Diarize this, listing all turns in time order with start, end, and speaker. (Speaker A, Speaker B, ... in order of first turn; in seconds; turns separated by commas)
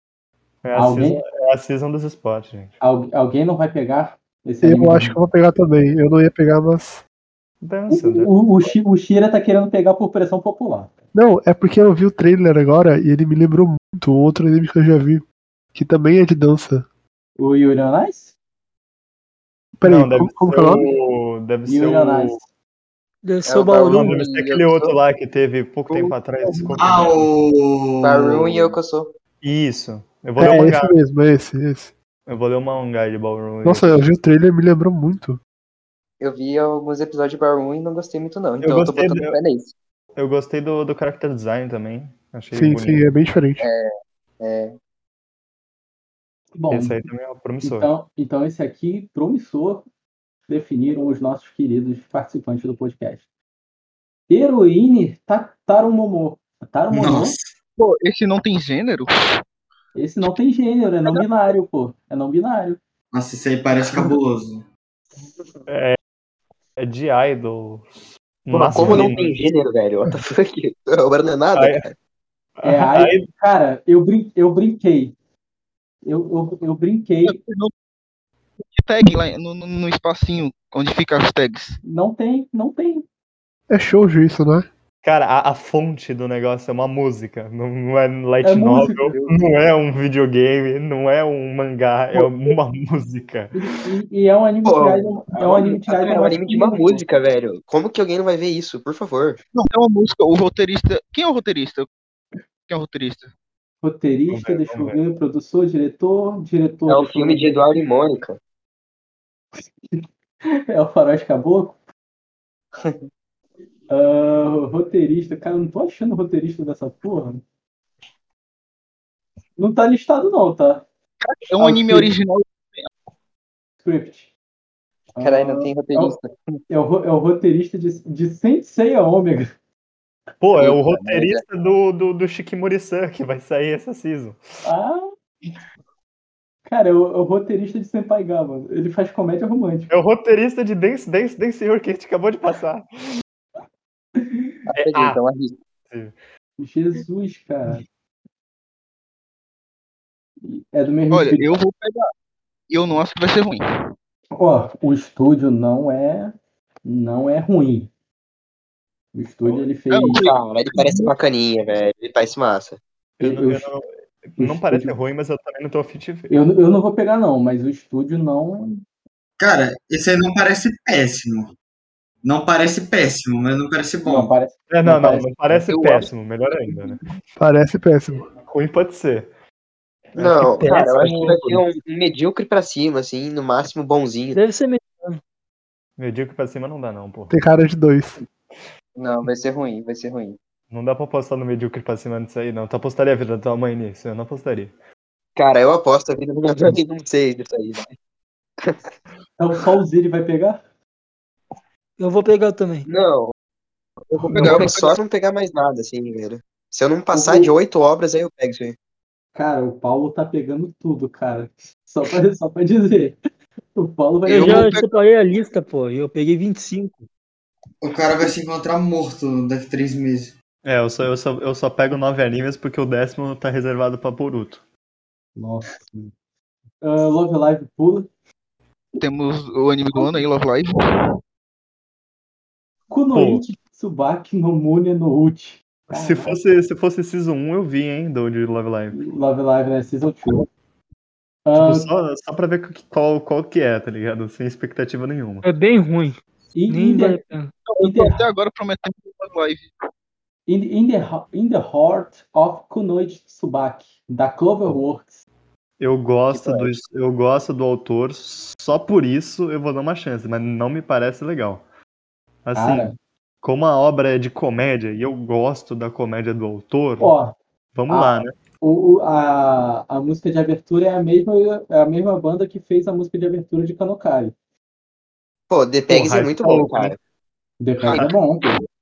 Speaker A: 0.6-2.7, Speaker B: 0.7-1.2, Speaker B: 2.8-5.2, Speaker C: 4.6-7.0, Speaker A: 7.6-8.7, Speaker B: 7.9-10.9, Speaker C: 11.1-15.2, Speaker C: 15.7-16.8, Speaker B: 17.4-18.3, Speaker C: 19.8-20.9, Speaker A: 19.8-22.4, Speaker B: 21.6-22.4, Speaker D: 23.2-24.2, Speaker E: 23.5-24.9, Speaker A: 23.9-27.3, Speaker F: 25.9-26.8, Speaker G: 26.8-28.7, Speaker E: 28.0-29.1, Speaker A: 29.4-31.0, Speaker C: 30.4-31.9, Speaker A: 32.2-34.0, Speaker C: 33.6-35.4, Speaker E: 36.2-39.7, Speaker A: 38.6-39.4, Speaker A: 40.1-43.1, Speaker C: 42.5-43.7, Speaker E: 43.6-44.8, Speaker B: 46.5-47.1, Speaker A: 46.7-47.9, Speaker B: 47.6-49.9, Speaker B: 50.5-53.2, Speaker B: 54.3-57.4, Speaker G: 56.9-57.5, Speaker F: 57.8-59.1, Speaker B: 59.9-62.8, Speaker G: 63.1-64.7, Speaker A: 65.7-66.0, Speaker A: 66.8-67.9, Speaker A: 68.4-69.4, Speaker B: 68.5-69.1, Speaker H: 68.7-71.9, Speaker A: 71.5-71.8, Speaker A: 72.6-73.2, Speaker B: 72.6-75.1, Speaker B: 76.0-77.4, Speaker F: 77.2-77.7, Speaker F: 78.7-81.8, Speaker B: 81.8-83.0, Speaker C: 83.7-84.7, Speaker A: 85.0-93.5, Speaker B: 88.4-89.2, Speaker B: 93.5-97.0, Speaker H: 94.6-99.4, Speaker F: 99.5-101.9, Speaker F: 102.7-103.3, Speaker B: 103.8-107.6, Speaker A: 104.3-105.0, Speaker H: 106.9-108.4, Speaker B: 109.9-111.8, Speaker E: 112.8-113.0, Speaker B: 113.9-117.4, Speaker B: 119.6-120.8, Speaker F: 121.2-122.9, Speaker B: 121.6-122.1, Speaker B: 123.8-124.3, Speaker B: 125.1-126.2, Speaker E: 125.2-126.3, Speaker B: 126.7-129.5, Speaker A: 130.4-134.4, Speaker E: 130.5-131.4, Speaker B: 134.6-135.1, Speaker B: 136.7-139.9, Speaker A: 139.9-143.2, Speaker B: 144.2-144.4, Speaker E: 144.7-145.6, Speaker A: 144.7-145.2, Speaker A: 145.9-146.1, Speaker B: 146.6-147.8, Speaker B: 150.4-151.4, Speaker F: 151.1-152.1, Speaker F: 152.7-153.6, Speaker B: 154.4-157.9, Speaker B: 159.1-160.2, Speaker F: 159.9-161.1, Speaker H: 160.1-162.8, Speaker A: 163.2-166.3, Speaker B: 163.2-163.7, Speaker B: 164.4-164.9, Speaker B: 166.3-168.8, Speaker G: 169.4-171.5, Speaker G: 172.2-174.3, Speaker B: 174.0-175.7, Speaker A: 174.7-177.0, Speaker F: 175.7-176.0, Speaker C: 177.4-178.3, Speaker A: 178.4-179.3, Speaker A: 180.2-181.6, Speaker H: 180.2-184.4, Speaker D: 184.3-185.2, Speaker A: 186.0-187.3, Speaker C: 187.3-188.2, Speaker E: 189.0-190.4, Speaker A: 190.7-194.7, Speaker H: 195.3-197.9, Speaker B: 199.4-200.6, Speaker D: 202.0-202.9, Speaker H: 202.8-203.3, Speaker F: 204.1-205.0, Speaker A: 204.3-204.7, Speaker H: 204.3-208.8, Speaker B: 207.1-207.5, Speaker B: 209.3-213.2, Speaker B: 213.7-214.7, Speaker F: 214.2-214.9, Speaker D: 214.3-217.0, Speaker G: 217.8-220.3, Speaker A: 220.6-224.6, Speaker B: 225.3-226.1, Speaker B: 226.8-228.1, Speaker F: 229.0-231.2, Speaker B: 232.9-236.4, Speaker A: 233.1-233.4, Speaker A: 235.9-239.0, Speaker B: 238.9-240.5, Speaker B: 241.4-241.9, Speaker A: 241.5-245.4, Speaker D: 245.4-247.5, Speaker B: 246.5-247.2, Speaker F: 247.7-249.7, Speaker B: 247.8-248.2, Speaker B: 250.5-255.2, Speaker A: 255.8-261.6, Speaker B: 256.3-256.6, Speaker A: 262.4-267.2, Speaker B: 262.5-262.9, Speaker B: 267.0-267.3, Speaker A: 267.7-268.3, Speaker B: 267.9-274.3, Speaker H: 275.5-277.0, Speaker A: 275.9-277.0, Speaker B: 277.6-278.6, Speaker F: 277.8-278.1